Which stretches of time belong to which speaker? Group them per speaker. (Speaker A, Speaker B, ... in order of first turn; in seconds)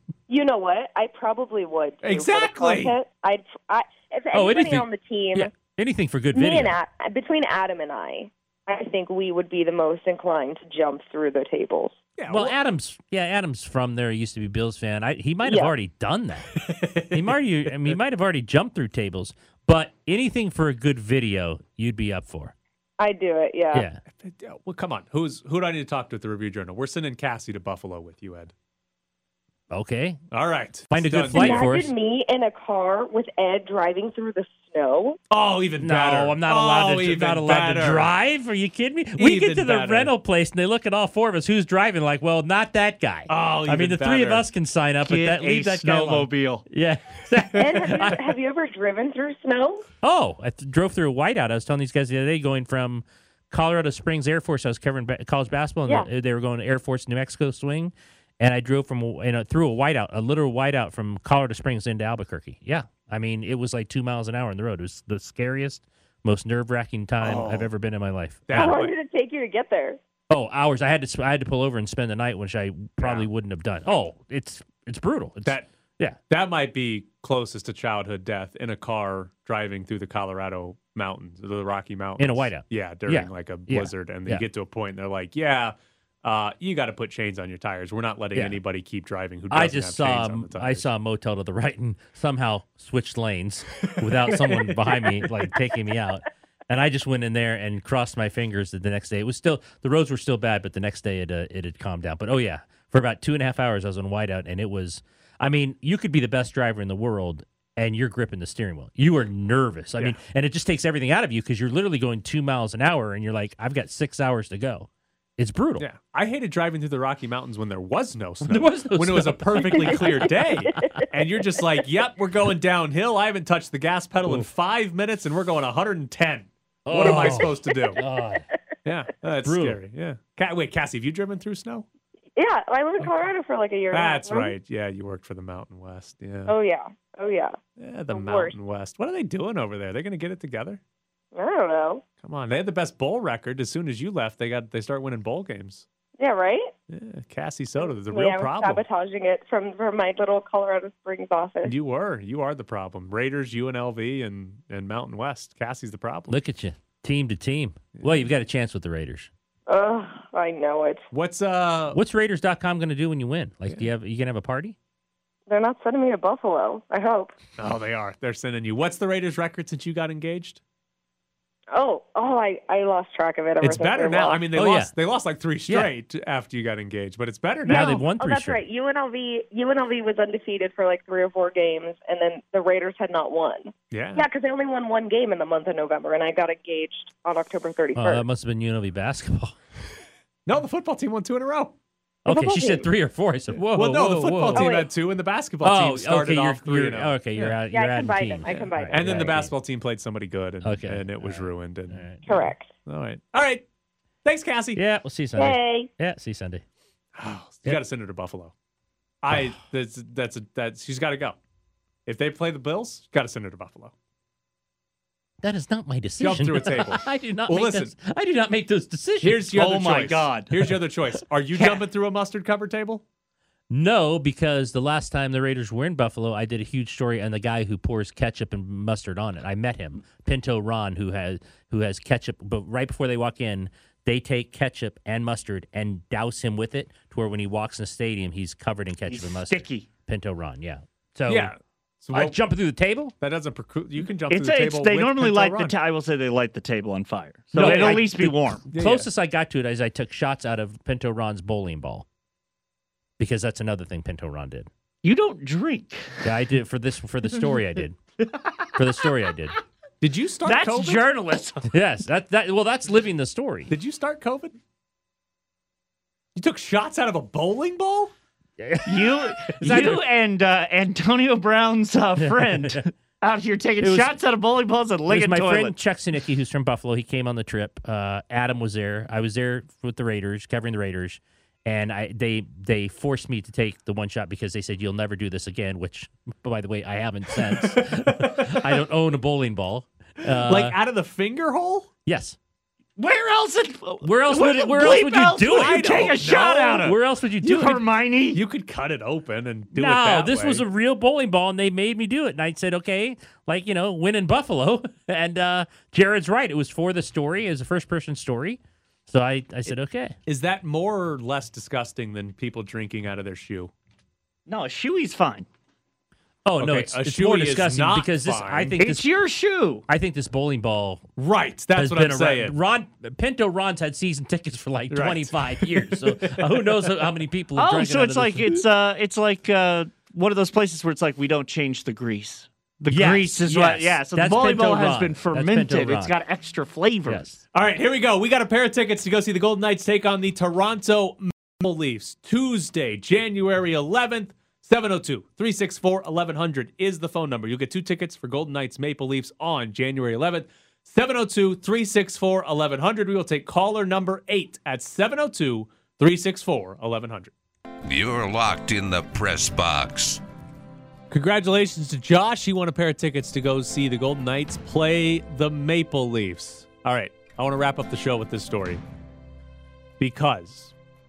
Speaker A: 0.3-5.5, 6.3-12.0, 15.4-15.7, 23.0-23.9, 31.3-35.2, 47.6-49.9, 68.5-70.0, 119.8-121.0, 127.0-128.4, 132.4-134.6, 136.5-137.6, 138.1-138.6, 141.3-142.0, 146.2-146.7, 147.8-151.7, 159.7-161.1, 165.5-167.3, 171.7-174.4, 177.7-188.2, 192.3-192.9, 194.5-194.9, 197.7-199.4, 202.2-202.7, 205.4-205.9
Speaker B: 2.0-2.9, 12.2-12.6, 16.6-17.3, 24.1-28.5, 30.3-31.7, 35.3-38.1, 39.2-40.1, 43.3-44.5, 47.4-48.0, 67.2-67.7, 68.5-68.9, 73.0-73.3, 76.3-90.9, 94.3-94.7, 115.8-128.0, 128.8-131.9, 133.9-136.5, 137.8-140.8, 142.2-145.8, 146.9-148.8, 151.7-156.4, 157.9-158.3, 161.1-162.0, 167.6-170.6, 173.6-178.1, 183.9-184.3, 190.5-191.8, 193.7-197.6, 198.5-203.7, 204.2-204.8, 207.2-208.5, 209.2-211.4, 212.1-213.9, 216.2-217.9, 219.2-223.0, 241.3-242.4, 243.2-245.8, 247.5-249.1, 260.0-261.1, 263.7-264.6, 266.4-268.1, 287.5-288.6, 290.3-291.9, 295.5-300.6, 310.3-313.7, 316.6-318.8, 321.2-322.6, 324.9-326.9, 337.5-357.3, 361.1-368.8, 370.0-370.7
Speaker C: 4.3-6.8, 12.3-22.5, 23.7-24.0, 29.7-30.2, 30.9-31.9, 35.8-48.2, 50.0-68.8, 70.3-76.2, 82.2-84.5, 88.3-88.6, 89.5-115.8, 118.5-120.3, 126.9-128.4, 129.4-129.8, 156.3-159.3, 161.9-164.8, 174.5-174.9, 175.7-175.9, 177.7-178.6, 188.0-189.6, 192.3-194.7, 195.6-199.5, 200.6-202.4, 204.8-206.6, 215.4-219.5, 223.7-241.5, 242.1-243.1, 247.6-252.1, 253.2-254.7, 256.2-258.0, 258.8-259.5, 261.7-263.7, 268.6-270.1, 272.2-272.9, 273.8-274.2, 275.1-290.8, 292.1-292.4, 294.0-295.9, 296.8-297.8, 299.7-310.2, 316.4-319.1, 319.9-321.1, 321.7-328.7, 332.9-336.2, 337.1-337.4
Speaker D: 45.0-46.6, 219.5-220.7, 239.1-239.9, 244.3-248.7, 255.0-256.3, 260.4-261.7, 268.9-275.8, 293.0-296.9, 297.5-298.4, 314.5-315.5, 318.8-319.9, 327.6-337.2
Speaker E: 357.8-360.2